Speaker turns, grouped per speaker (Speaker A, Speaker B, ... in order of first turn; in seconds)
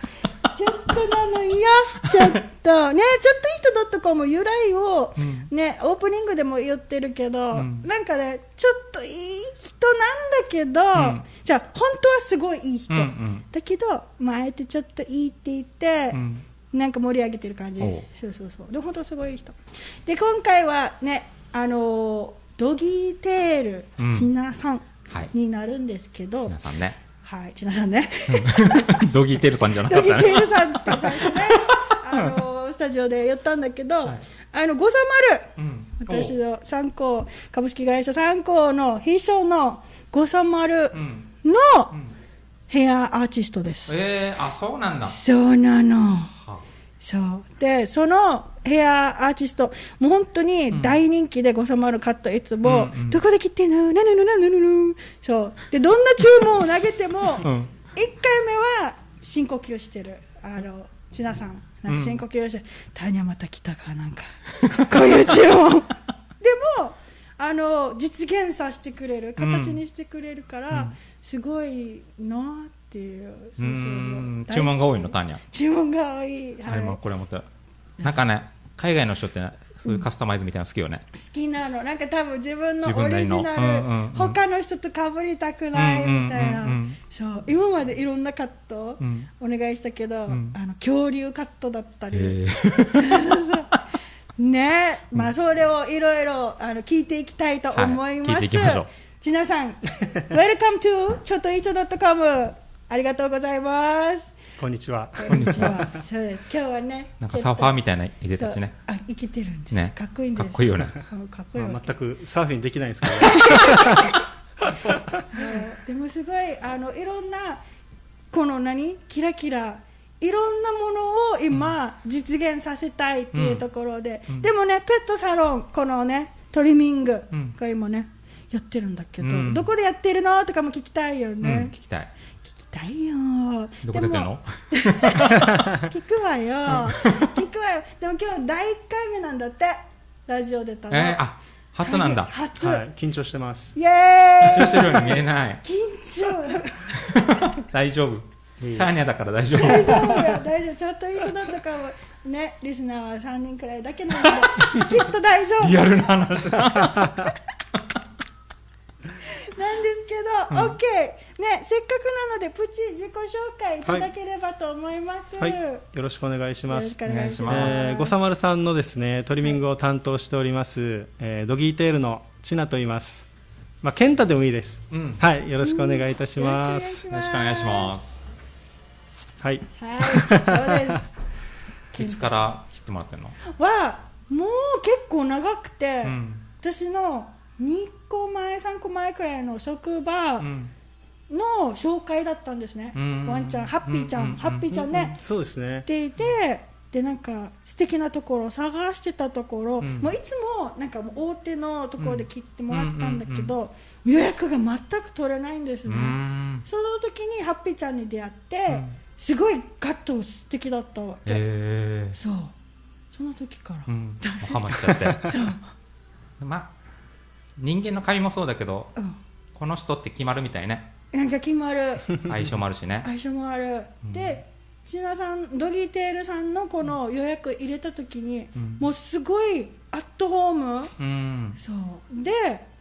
Speaker A: 0.4-16.2, 16.7-26.6, 27.1-29.1, 29.7-41.9, 42.7-44.0, 45.0-46.3, 47.0-77.0, 81.1-93.8, 94.4-104.4, 105.2-107.7, 108.4-111.9, 113.2-114.2, 115.3-117.6, 118.3-131.7, 132.6-141.2, 141.8-142.8, 143.7-147.2, 149.5-155.9, 159.2-165.8, 166.7-168.1, 175.6-178.0, 179.8-181.2, 181.9-182.3, 183.4-190.5, 191.3-195.2, 195.8-211.4, 212.1-212.5, 213.1-215.6, 221.1-222.2, 223.0-230.9, 231.6-232.6
Speaker B: 2.0-2.3, 5.2-5.5, 7.5-7.9, 10.9-11.2, 12.9-13.4, 16.1-16.4, 17.8-18.1, 24.0-24.3, 26.4-27.0, 28.3-32.4, 35.5-36.4, 40.9-41.3, 43.9-45.2, 46.3-46.6, 50.7-51.0, 52.6-53.2, 57.4-57.8, 61.9-62.2, 64.6-65.2, 69.4-69.8, 73.6-75.4, 76.7-77.4, 78.0-81.0, 82.8-84.4, 85.7-87.0, 89.0-89.3, 90.3-90.5, 92.1-93.2, 97.7-98.9, 105.3-105.9, 107.2-108.7, 109.7-110.9, 123.3-123.6, 129.2-129.7, 131.4-132.1, 133.8-135.5, 136.7-137.3, 140.9-142.3, 144.4-145.6, 146.9-150.4, 154.2-154.8, 155.6-158.0, 160.5-160.8, 167.1-167.9, 174.9-175.2, 177.1-178.1, 181.9-183.3, 186.0-186.4, 190.4-190.7, 192.9-194.9, 199.8-200.1, 202.0-203.5, 205.9-206.6, 208.7-209.0, 211.2-212.2, 213.9-215.4, 216.4-216.7, 217.6-218.9, 219.5-220.9, 222.2-223.1, 224.0-224.4, 228.6-228.8, 231.0-231.6
Speaker C: 104.6-105.9, 111.5-115.5, 142.6-143.7, 148.6-148.9, 165.4-173.2, 173.8-177.0, 179.4-180.9, 194.9-195.8